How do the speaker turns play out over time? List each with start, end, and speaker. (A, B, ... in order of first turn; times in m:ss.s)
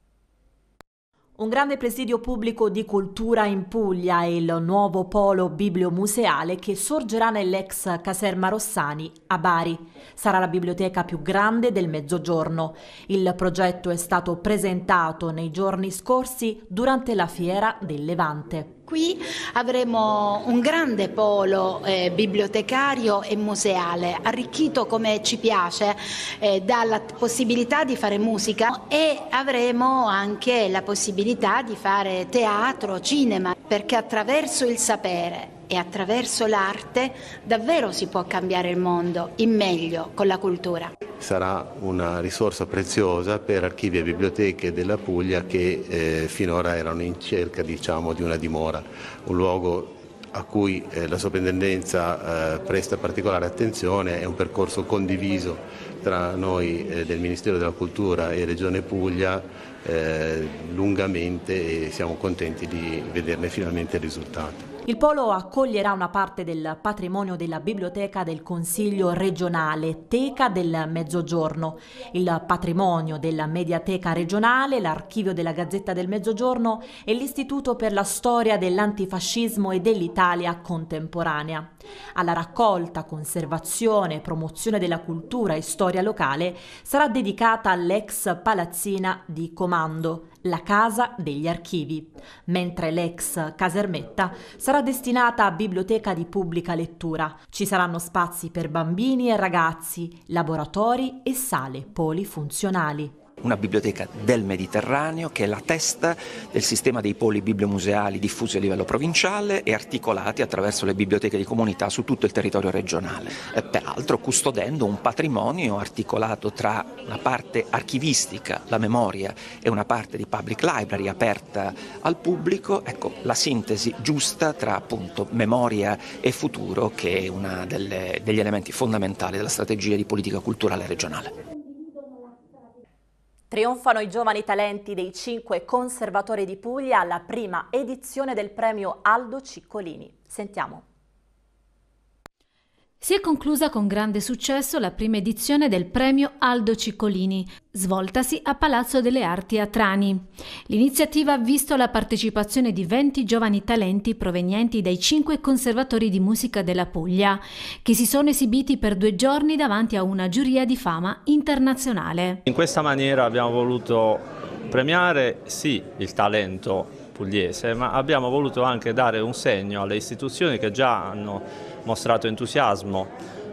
0:01.4-0:18.7 A
0:18.9-0:40.9 B
0:41.2-1:04.7 C
1:04.8-1:43.2 A
1:43.4-2:11.3 D
2:13.5-2:20.8 A
2:23.0-2:42.4 E
2:42.4-2:53.1 F